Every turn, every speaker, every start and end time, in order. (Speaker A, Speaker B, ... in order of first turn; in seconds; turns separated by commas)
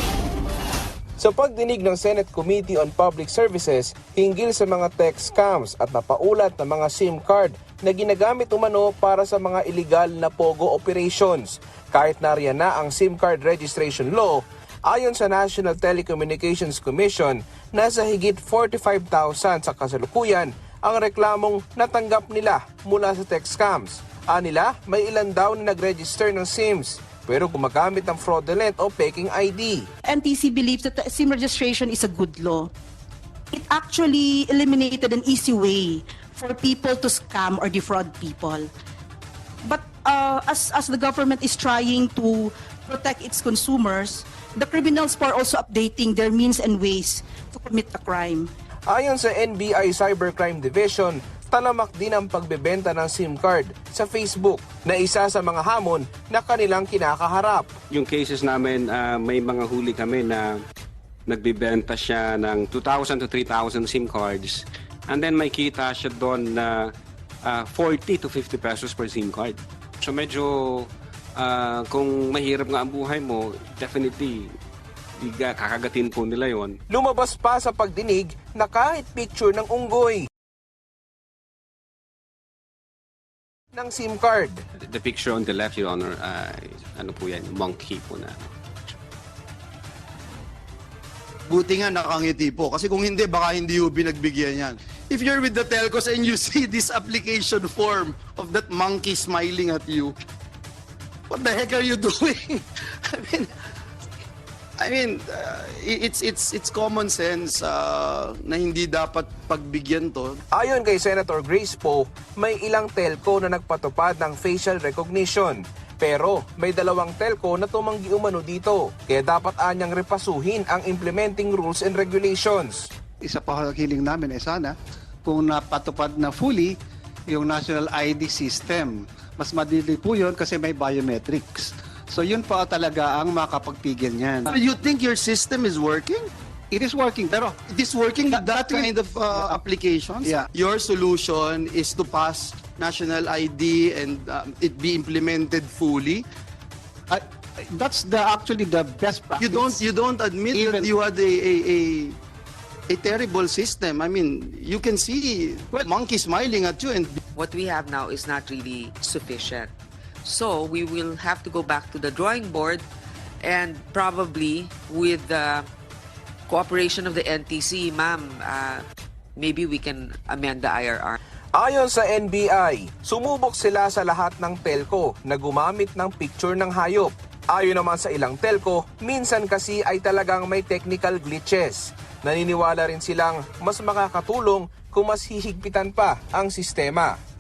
Speaker A: 1.2-29.9, Speaker B: 30.1-32.7, Speaker B: 33.5-38.7, Speaker B: 39.6-48.5, Speaker A: 48.9-57.7, Speaker C: 57.9-60.5, Speaker C: 61.3-66.9, Speaker C: 67.5-74.5, Speaker C: 75.2-76.8, Speaker A: 76.9-80.2, Speaker A: 83.7-84.6, Speaker C: 84.9-89.0, Speaker D: 91.5-100.2, Speaker D: 101.3-103.5, Speaker D: 104.8-110.4, Speaker A: 110.5-122.9, Speaker E: 123.2-126.8, Speaker E: 127.3-134.5, Speaker D: 134.5-136.3, Speaker E: 136.7-137.6, Speaker D: 137.7-146.3, Speaker E: 138.3-139.6, Speaker E: 147.1-149.8, Speaker D: 149.4-152.2, Speaker E: 150.5-150.9, Speaker D: 152.9-157.2, Speaker F: 157.3-159.7, Speaker F: 160.2-162.9, Speaker F: 163.4-165.7, Speaker F: 166.5-168.8, Speaker F: 169.4-171.2, Speaker A: 171.6-187.2